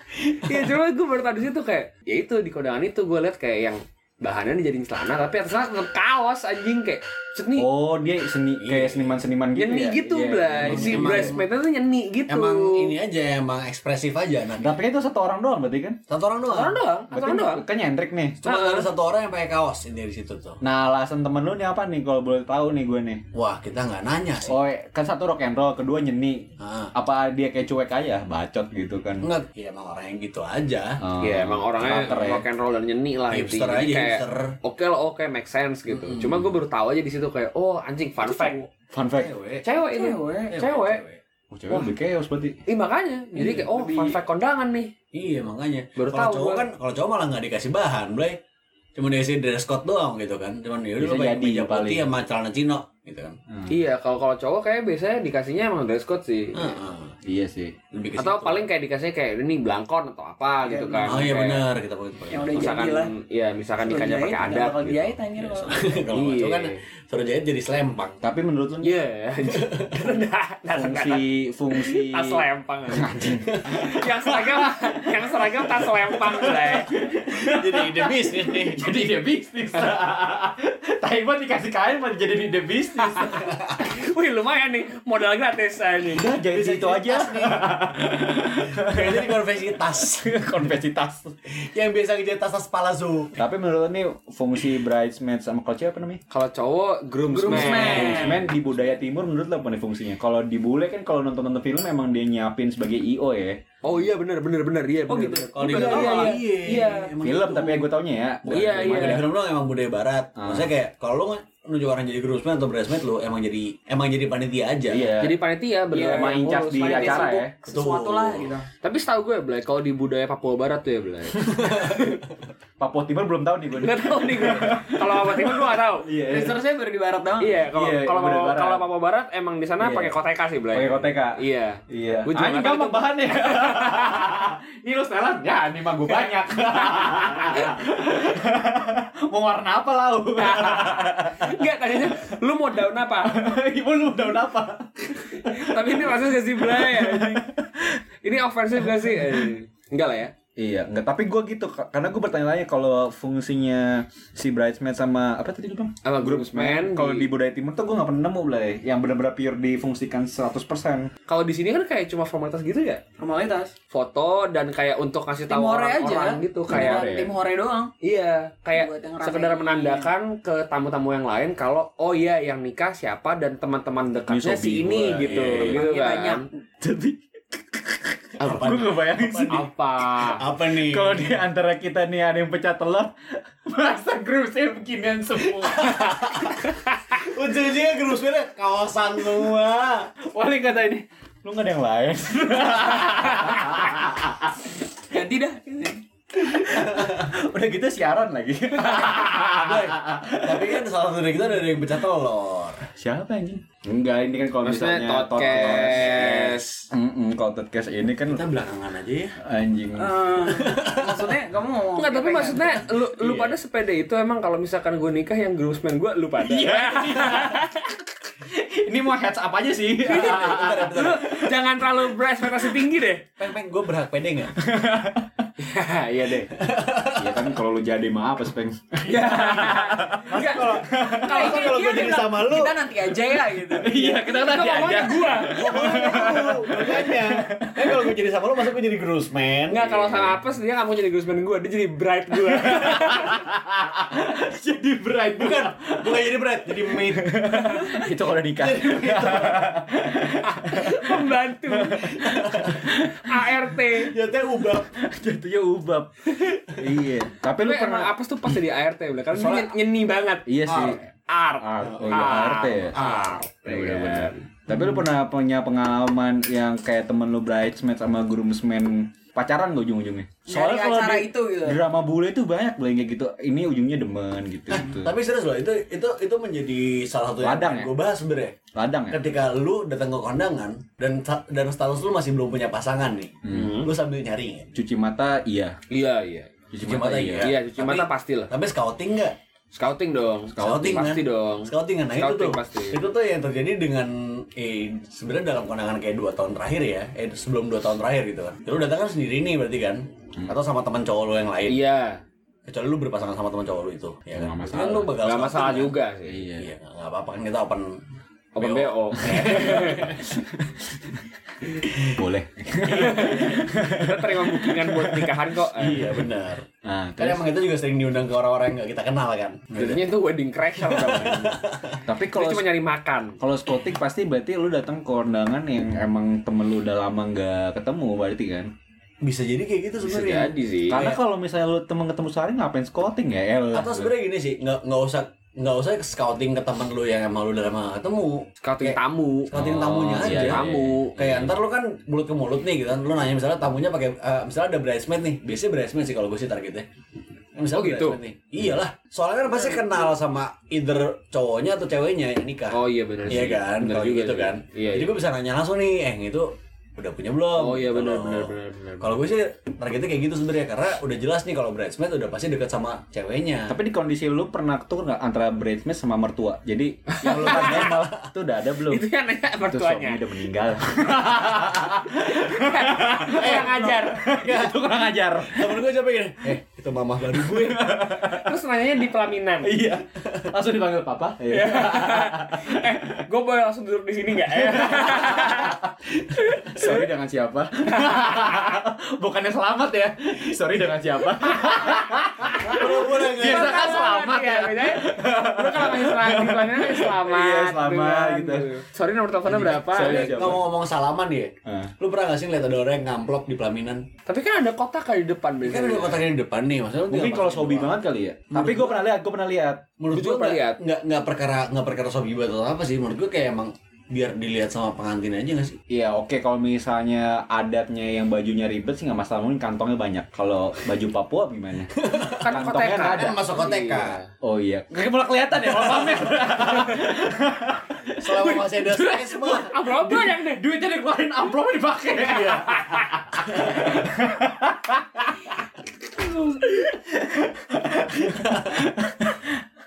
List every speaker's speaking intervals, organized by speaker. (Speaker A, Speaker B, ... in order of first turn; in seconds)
Speaker A: 0.4-7.7, 9.6-12.9, 16.5-17.6, 18.4-18.9, 31.2-38.6, 39.6-41.0, 42.7-44.9, 46.0-46.7, 53.7-56.8, 58.2-61.6, 62.5-64.9, 66.1-66.8, 68.8-73.1, 73.7-76.9, 83.1-86.3, 96.3-98.5, 103.8-107.1, 108.5-109.2, 115.2-117.3, 118.8-122.1, 123.8-126.1, 127.4-134.3, 140.4-143.4, 145.3-147.5, 148.2-150.3, 156.0-157.3, 161.3-163.0, 163.9-167.0, 168.0-176.4, 179.5-180.4, 204.6-206.9, 211.9-217.8, 220.0-223.2, 225.6-226.5, 229.0-231.8, 233.9-235.6, 239.7-243.4, 250.4-252.1, 253.2-254.1, 257.6-264.5, 283.5-283.9, 285.9-286.5, 287.4-288.5, 289.7-293.0, 301.7-302.2, 305.2-306.4, 308.5-310.1, 312.9-316.1, 319.7-321.6, 322.3-323.4, 330.0-331.1, 338.6-341.2, 347.7-348.2, 352.7-355.1, 357.5-359.2, 367.1-367.9, 368.9-370.2, 372.3-374.2, 378.3-379.7, 381.5-385.8, 386.3-387.0, 393.1-400.5, 404.2-406.2, 410.1-410.8, 422.4-424.2, 428.9-430.6, 432.7-433.0
Speaker B: 0.4-0.7, 8.6-9.2, 10.6-11.4, 12.3-14.8, 16.1-16.8, 18.4-20.6, 23.3-24.6, 26.6-26.9, 29.2-31.0, 31.9-32.2, 33.3-34.5, 35.9-36.5, 39.1-39.6, 40.5-41.2, 43.4-43.6, 45.1-48.4, 48.9-53.4, 56.5-57.1, 57.9-58.6, 61.0-62.6, 65.6-68.2, 69.5-70.0, 73.4-73.8, 77.3-78.8, 83.5-83.7, 86.5-90.3, 91.5-93.4, 105.5-107.9, 108.5-115.1, 117.6-118.5, 121.7-122.2, 175.1-175.7, 178.4-181.3, 185.6-190.1, 196.7-197.3, 198.8-202.8, 205.4-206.3, 208.2-209.3, 210.4-211.3, 220.1-221.3, 223.4-224.5, 226.5-227.6, 230.3-232.8, 235.5-240.2, 245.3-247.5, 248.5-249.7, 252.1-252.9, 254.0-254.9, 259.3-259.7, 260.7-261.0, 261.8-262.2, 262.9-263.3, 274.7-278.6, 279.1-284.7, 286.8-289.4, 290.6-301.8, 302.6-306.0, 306.6-308.0, 308.6-310.3, 311.8-312.2, 312.9-313.4, 315.8-316.6, 317.2-320.1, 320.8-322.0, 329.2-331.2, 333.7-346.9, 347.5-363.8, 367.2-368.3, 373.3-374.9, 375.4-378.0, 392.6-394.0, 399.5-404.1, 405.6-407.9, 408.5-409.0, 410.0-415.8, 421.9-422.6, 423.1-424.2, 425.7-426.9, 428.2-429.7, 432.2-432.7, 433.5-433.8, 438.3-438.8
Speaker C: 7.5-11.3, 14.6-16.0, 17.1-18.4, 20.6-23.2, 24.5-29.3, 31.0-32.4, 38.9-39.3, 41.5-42.6, 51.0-52.1, 53.5-53.7, 57.2-57.8, 64.5-65.7, 68.2-68.9, 70.7-83.5, 86.1-91.3, 93.4-96.2, 97.5-103.6, 107.2-109.3, 110.4-110.7, 114.9-115.4, 116.0-117.5, 121.6-121.8, 122.8-126.6, 127.7-128.8, 129.8-130.2, 130.7-142.2, 143.2-148.0, 148.8-149.5, 150.6-161.1, 166.7-167.3, 174.3-175.8, 176.8-179.7, 180.5-183.1, 183.6-186.7, 190.3-194.6, 196.4-200.8, 202.9-208.5, 209.4-210.2, 213.2-213.5, 216.4-221.5, 222.4-222.8, 224.6-225.5, 227.0-231.6, 233.7-238.1, 242.5-253.7, 254.7-258.6, 260.4-261.0, 261.6-263.0, 263.6-275.1, 277.4-277.9, 278.7-279.2, 283.4-283.8, 284.7-285.8, 286.7-287.6, 304.3-305.1, 306.3-306.7, 309.2-309.7, 310.3-311.2, 312.0-317.5, 322.1-322.7, 323.4-328.7, 330.9-334.1, 339.5-341.5, 363.7-369.1, 369.7-375.9, 377.3-378.6, 379.6-383.2, 384.5-385.9, 386.6-398.7, 399.7-400.6, 401.6-401.9, 407.1-409.9, 415.9-423.6, 424.3-435.5, 436.2-439.6
Speaker D: 38.2-38.6, 39.9-40.6, 43.7-44.2, 60.6-61.2, 62.3-63.1, 63.8-66.0, 97.3-98.5, 105.1-107.0, 115.9-118.7, 126.3-127.6, 163.2-163.7, 165.5-167.9, 168.7-170.1, 175.4-176.5, 195.1-196.0, 209.9-212.9, 231.2-233.9, 235.8-236.4, 270.5-271.8